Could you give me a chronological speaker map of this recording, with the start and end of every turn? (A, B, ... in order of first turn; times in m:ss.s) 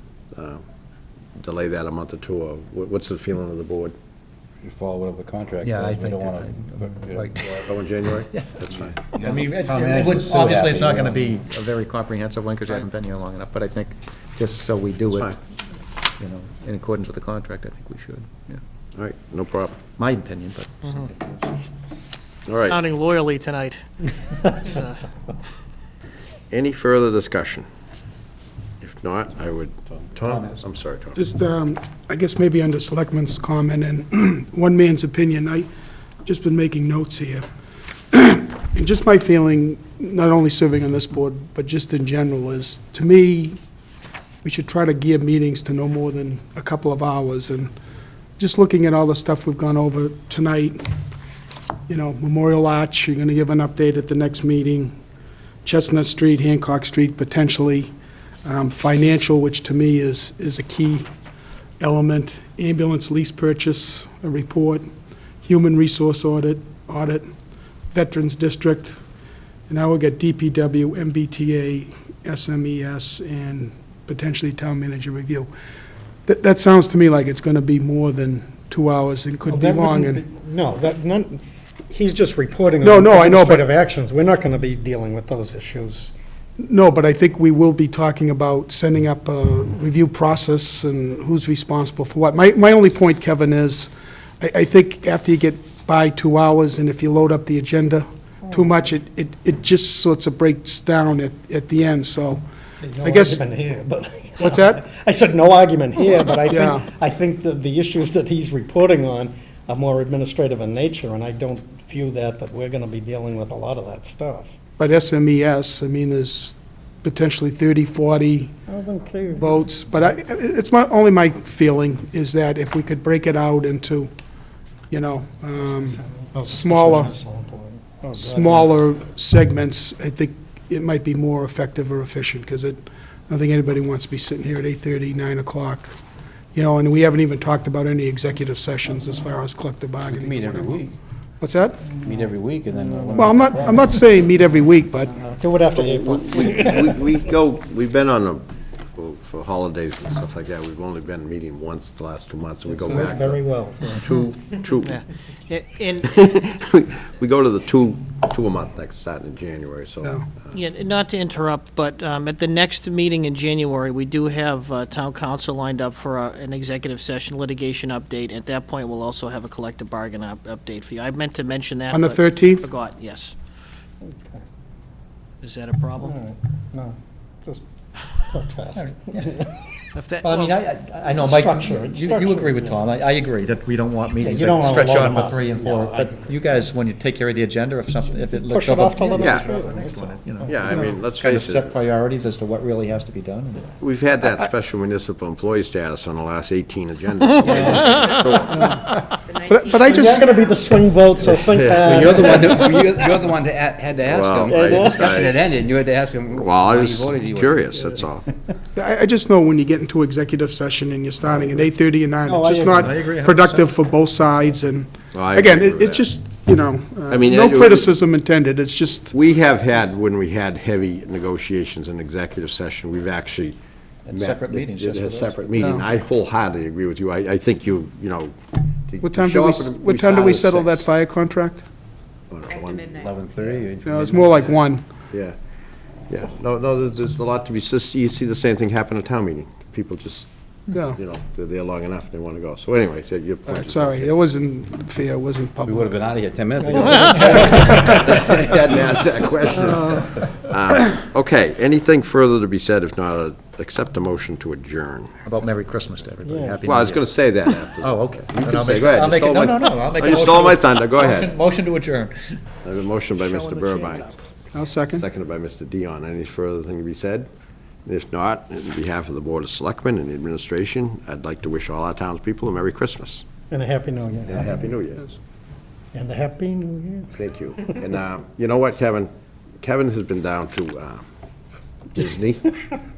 0:00.3-0:00.6 A
0:01.4-0:04.0 A
0:04.6-0:07.7 B
0:05.6-0:07.8 C
0:07.7-0:09.0 A
0:08.3-0:08.6 C
0:08.9-0:11.2 B
0:09.1-0:15.4 C
0:15.1-0:15.4 A
0:16.2-0:18.6 C
0:19.0-0:19.8 A
0:20.0-0:21.5 C
0:22.5-0:22.8 A
0:22.7-0:25.0 D
0:26.5-0:27.6 A
0:28.8-0:31.2 A
0:30.3-0:30.6 C
0:31.1-0:35.7 E
0:36.2-0:37.4 E
0:38.1-0:43.6 E
0:44.4-0:47.7 E
0:48.4-0:50.8 E
0:51.9-0:54.9 E
0:55.6-0:57.9 E
0:58.4-1:01.1 E
1:01.8-1:04.9 E
1:05.4-1:07.3 E
1:07.9-1:09.0 E
1:09.7-1:15.5 E
1:16.3-1:20.2 E
1:19.5-1:26.1 F
1:22.8-1:23.7 E
1:26.6-1:42.4 E
1:38.5-1:38.8 F
1:42.8-1:54.6 F
1:43.0-1:43.4 E
1:44.4-1:44.8 E
1:46.5-1:46.8 E
1:54.8-1:58.5 E
1:58.7-1:59.7 F
1:59.4-2:04.1 E
2:04.9-2:07.1 E
2:05.7-2:08.8 F
2:08.2-2:15.9 E
2:16.5-2:20.8 E
2:20.0-2:21.0 B
2:21.4-2:22.0 E
2:21.9-2:23.8 B
2:22.7-2:24.0 F
2:23.2-2:25.2 E
2:25.1-2:27.2 F
2:25.7-2:35.0 A
2:32.6-2:34.0 F
2:34.8-2:36.1 D
2:36.0-2:40.5 A
2:40.0-2:40.3 E
2:40.5-2:53.3 D
2:51.9-2:52.7 E
2:54.0-2:54.4 F
2:55.4-2:56.2 D
2:56.0-2:59.5 F
2:58.8-2:59.4 C
2:59.9-3:00.5 D
3:00.2-3:13.7 C
3:01.2-3:02.8 F
3:04.2-3:06.3 F
3:08.1-3:10.8 F
3:09.1-3:09.5 A
3:10.4-3:11.7 A
3:10.7-3:11.0 E
3:13.8-3:18.6 A
3:17.4-3:17.8 B
3:17.8-3:18.2 D
3:18.5-3:20.3 E
3:19.8-3:22.8 F
3:21.2-3:21.9 A
3:21.8-3:27.8 B
3:24.0-3:25.4 A
3:24.5-3:25.2 F
3:26.3-3:28.2 A
3:27.7-3:28.0 F
3:28.8-3:39.2 E
3:32.2-3:32.9 F
3:32.7-3:33.7 C
3:35.1-3:36.1 A
3:37.1-3:37.9 A
3:39.1-3:43.6 A
3:44.1-3:45.8 C
3:44.1-3:48.3 A
3:45.6-3:45.8 E
3:48.9-3:50.9 A
3:49.0-3:51.7 E
3:52.3-3:53.6 A
3:52.9-3:54.6 B
3:53.8-3:54.9 E
3:55.1-3:55.4 A
3:56.1-4:00.3 A
4:00.7-4:01.0 E
4:01.0-4:04.2 A
4:03.4-4:06.1 E
4:05.6-4:08.6 B
4:06.8-4:07.4 F
4:07.3-4:08.0 E
4:07.8-4:15.1 A
4:15.2-4:17.0 C
4:16.2-4:16.7 F
4:16.7-4:21.3 A
4:17.8-4:22.4 C
4:22.6-4:24.1 A
4:23.2-4:24.2 D
4:24.5-4:25.1 E
4:24.9-4:27.3 A
4:27.9-4:33.3 A
4:33.5-4:34.8 F
4:34.3-4:35.1 A
4:35.9-4:37.9 F
4:37.2-4:41.0 A
4:42.0-4:42.6 A